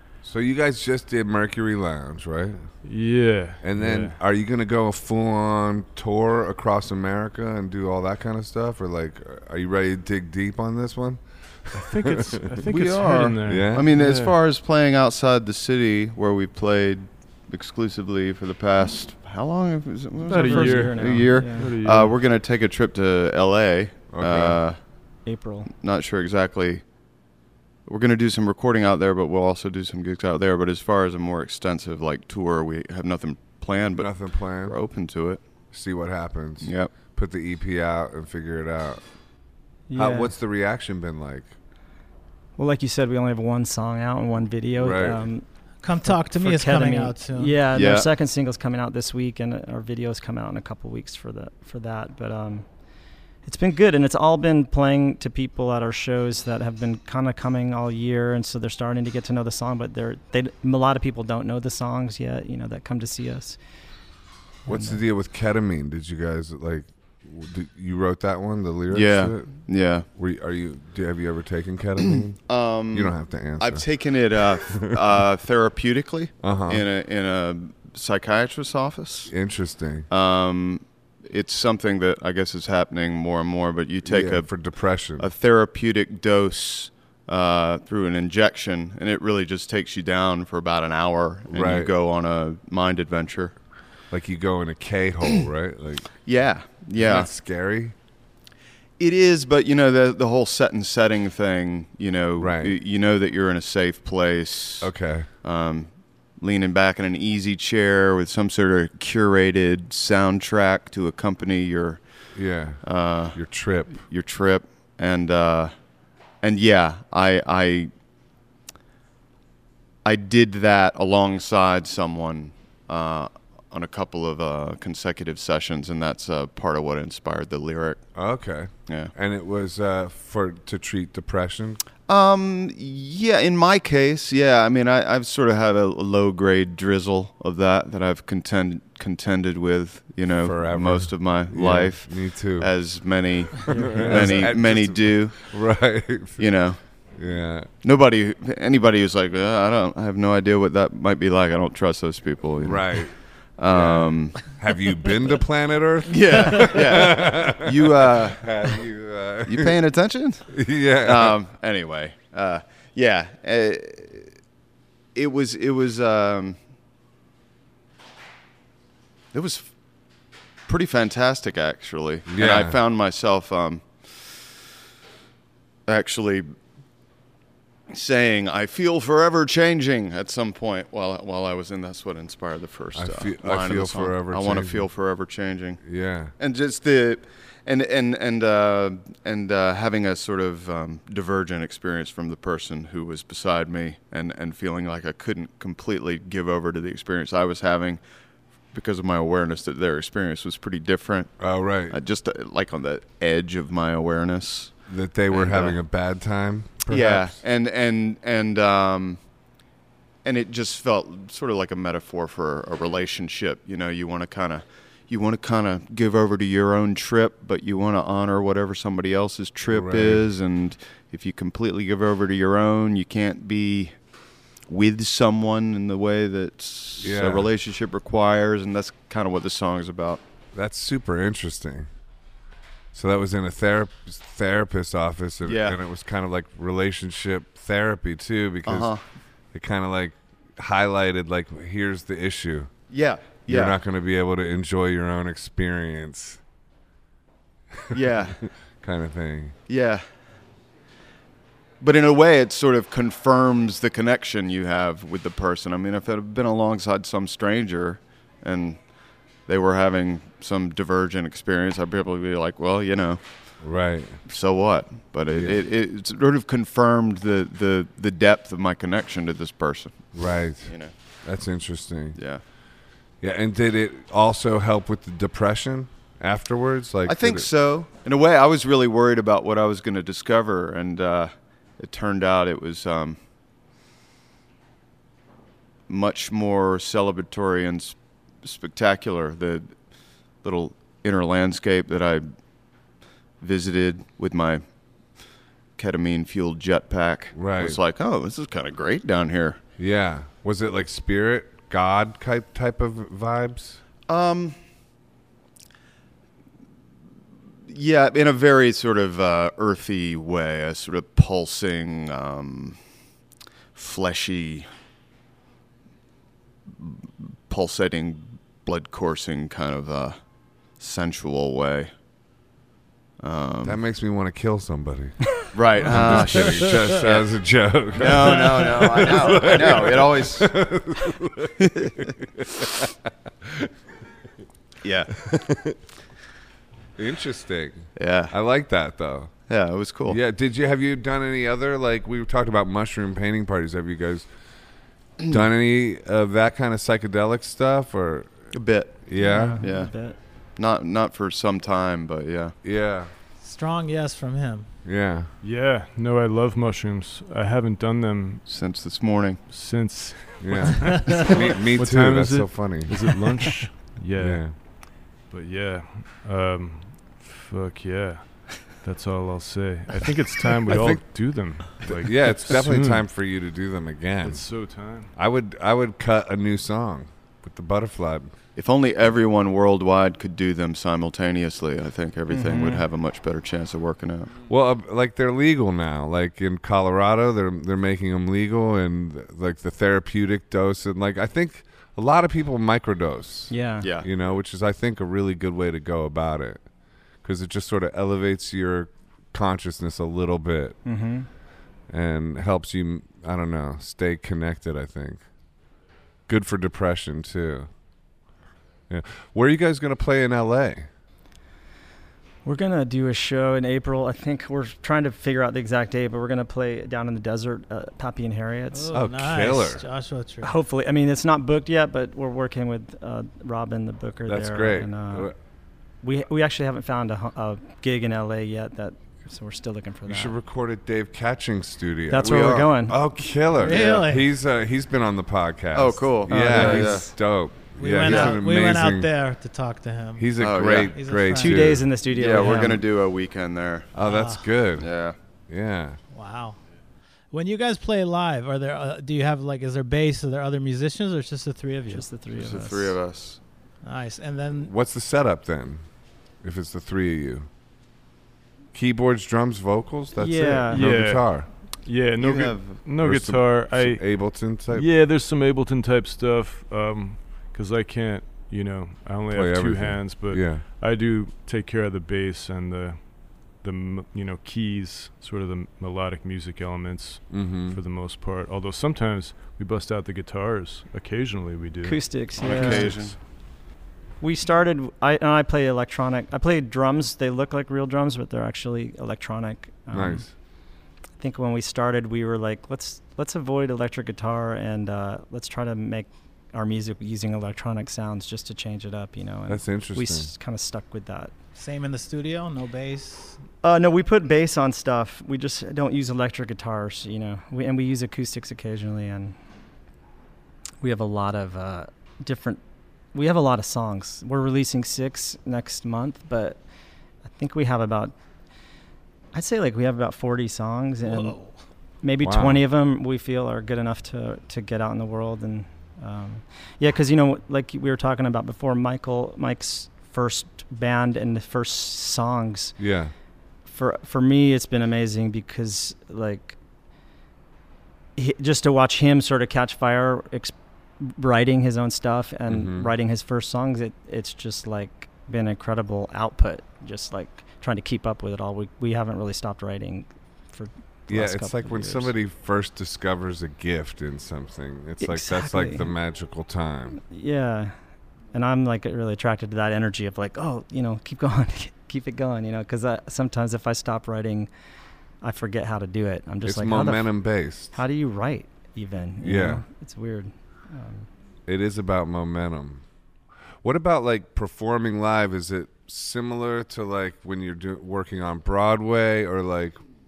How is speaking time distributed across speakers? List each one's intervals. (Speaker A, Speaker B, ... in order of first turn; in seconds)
Speaker A: 0.2-2.7, 3.6-12.4, 13.4-13.9, 24.1-24.6, 34.0-34.8, 35.7-39.0, 39.9-41.5, 44.8-45.3, 64.7-73.9, 76.4-76.8, 79.3-80.1, 84.0-85.3, 91.5-91.9, 94.1-96.1, 97.0-97.9, 102.4-102.8, 104.8-105.3, 112.3-114.0, 128.2-131.8, 140.4-142.7, 143.7-146.5, 147.1-147.7, 152.6-159.8, 160.5-161.4, 172.3-172.8, 182.9-184.9, 185.8-186.3, 201.4-202.0, 204.9-207.3, 219.7-220.3, 227.0-227.5, 230.5-231.9, 232.9-238.9, 239.5-242.7, 243.5-246.4, 248.8-249.6, 263.6-264.2, 265.3-265.6, 270.1-270.7, 271.2-272.2, 273.2-277.5, 297.4-297.8, 299.8-303.8, 323.6-332.9, 333.4-333.7, 335.3-335.7, 337.0-339.3, 340.1-344.3, 345.3-348.5, 349.1-349.6, 352.6-353.1, 354.9-355.3, 360.4-363.2, 364.2-364.6, 370.7-378.3, 384.5-396.7, 397.2-400.8, 401.9-405.2, 406.3-407.7, 408.9-410.9, 418.9-419.8, 424.3-425.3, 430.1-439.1, 440.2-441.9, 443.9-444.9, 445.5-446.0, 454.6-455.8, 456.4-457.5, 458.7-461.5, 463.0-464.9, 469.3-470.6, 477.3-477.8, 489.9-490.3, 499.5-500.3, 522.2-522.6, 532.8-533.1, 542.5-542.9, 551.1-557.0, 566.5-567.7, 569.2-569.6, 571.5-572.8, 573.6-579.8
Speaker B: 2.8-4.2, 11.7-14.4, 20.3-22.2, 355.4-358.5, 359.5-373.1, 374.2-375.1, 460.7-483.1
Speaker C: 12.7-24.8, 25.8-26.9, 27.9-35.4, 36.6-36.9, 47.7-48.1, 68.9-70.1, 72.1-79.3, 80.1-93.5, 96.2-97.3, 99.0-112.0, 112.8-115.7, 116.4-117.9, 120.0-128.1, 128.9-129.1, 132.1-145.5, 146.4-146.9, 147.8-154.5, 156.1-158.7, 159.5-164.3, 165.2-166.6, 169.3-169.7, 170.7-174.3, 175.9-176.5, 177.9-185.8, 186.4-198.0, 198.7-204.8, 205.3-205.8, 206.9-209.2, 210.2-224.0, 224.7-230.2, 235.4-235.8, 238.7-239.0, 242.9-243.8, 247.9-248.5, 249.7-250.0, 251.8-263.6, 264.3-270.9, 272.1-272.4, 277.1-283.2, 285.9-289.8, 290.4-292.2, 293.4-294.6, 295.8-299.6, 304.1-304.6, 307.7-312.8, 313.8-314.7, 316.8-320.2, 320.8-321.9, 323.2-323.8, 325.5-327.3, 327.9-330.5, 331.6-332.1, 334.8-335.3, 338.0-338.3, 339.5-340.2, 348.5-349.9, 350.6-352.6, 358.5-359.4, 378.6-384.3, 393.8-394.1, 433.6-434.0, 435.7-437.1, 438.1-438.3, 440.4-440.9, 442.1-443.9, 444.8-445.2, 452.3-453.4, 462.2-462.8, 482.4-483.2
Speaker D: 20.3-21.8, 25.2-25.7, 39.9-40.3, 42.6-52.7, 53.4-63.6, 64.7-65.0, 143.7-144.3, 349.2-350.2, 382.3-382.9, 393.5-393.9, 400.9-401.3, 412.4-419.0, 420.4-425.3, 426.0-430.4, 432.1-433.0, 436.3-437.0, 441.3-442.8, 451.9-453.0, 460.2-460.9, 481.8-483.1, 484.2-490.3, 491.2-501.3, 503.6-509.4, 510.8-512.6, 513.1-516.6, 517.2-518.1, 519.3-521.4, 522.0-532.8, 533.7-536.6, 538.2-552.1, 555.0-555.9, 557.0-557.7, 558.3-564.5, 565.2-571.1
Speaker E: 45.8-47.6, 353.4-354.8, 360.8-361.3, 418.7-420.6, 433.6-434.2, 436.5-436.9, 437.8-441.8, 444.0-444.5, 446.1-446.6, 447.3-452.2, 453.8-454.7, 501.6-503.4, 521.1-521.5